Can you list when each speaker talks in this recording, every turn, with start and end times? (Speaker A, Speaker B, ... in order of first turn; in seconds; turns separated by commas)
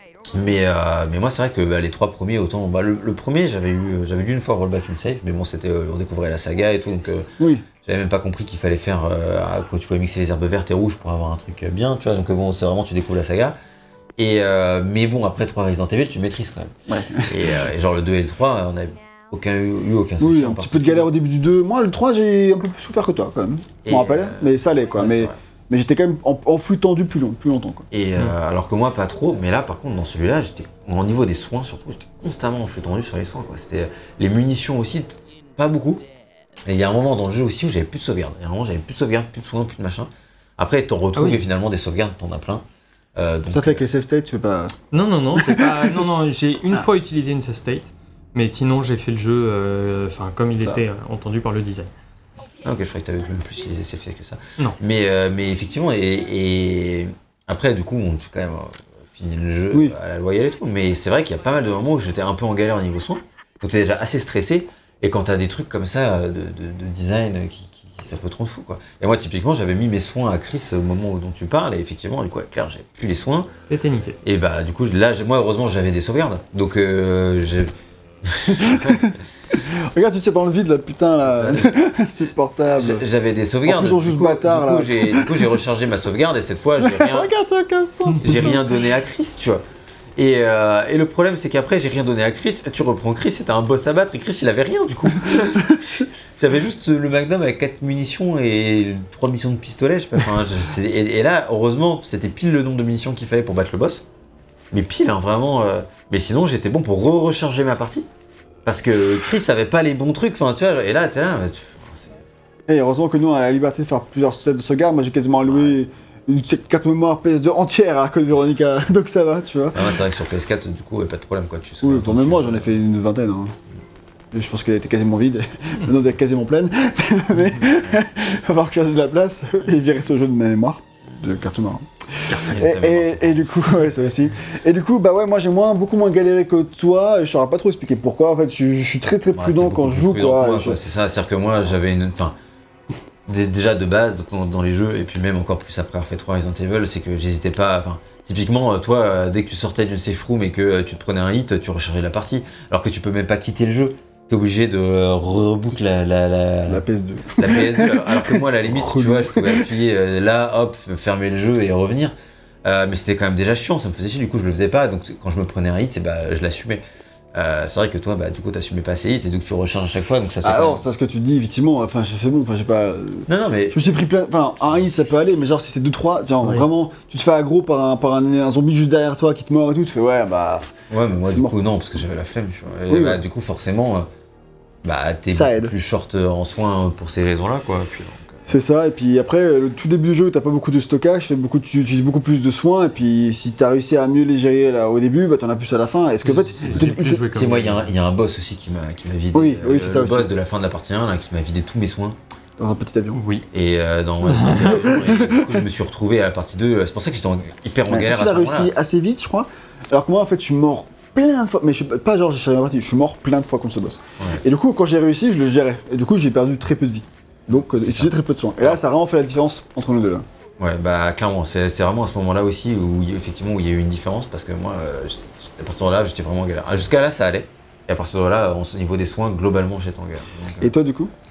Speaker A: 0.3-7.3, Speaker B: 7.4-7.7, Speaker A: 7.8-13.6, Speaker A: 14.2-21.1, Speaker B: 16.9-17.5, Speaker B: 20.2-27.9, Speaker A: 23.8-25.3, Speaker A: 27.9-36.0, Speaker A: 36.6-42.6, Speaker C: 41.1-41.4, Speaker A: 43.1-43.9, Speaker B: 43.5-44.8, Speaker C: 44.9-51.9, Speaker B: 45.3-46.0, Speaker A: 52.6-73.5, Speaker B: 59.7-60.0, Speaker C: 73.7-74.2, Speaker A: 74.2-77.7, Speaker A: 78.2-79.2, Speaker B: 78.6-83.0, Speaker A: 81.2-81.8, Speaker A: 82.7-87.3, Speaker B: 83.7-85.6, Speaker B: 86.8-88.7, Speaker A: 88.2-89.6, Speaker A: 90.2-95.8, Speaker B: 95.0-96.0, Speaker A: 96.4-104.0, Speaker A: 104.7-108.1, Speaker A: 108.6-112.2, Speaker B: 112.7-119.9, Speaker A: 115.5-115.7, Speaker A: 119.7-122.7, Speaker B: 121.8-123.5, Speaker B: 124.3-140.8, Speaker A: 132.5-133.9, Speaker A: 139.3-142.3, Speaker A: 143.3-156.8, Speaker B: 156.7-159.7, Speaker A: 157.4-166.8, Speaker A: 167.3-170.8, Speaker B: 170.4-181.6, Speaker A: 173.3-174.0, Speaker A: 180.9-184.1, Speaker B: 182.9-183.2, Speaker A: 184.8-188.4, Speaker B: 185.3-185.7, Speaker B: 188.4-197.2, Speaker C: 196.2-197.9, Speaker A: 196.7-202.2, Speaker B: 199.3-200.3, Speaker B: 202.6-203.2, Speaker C: 203.1-203.4, Speaker A: 203.5-208.7, Speaker C: 204.3-205.0, Speaker B: 204.6-205.6, Speaker B: 207.9-220.2, Speaker A: 217.7-218.8, Speaker A: 220.6-230.7, Speaker B: 230.6-231.1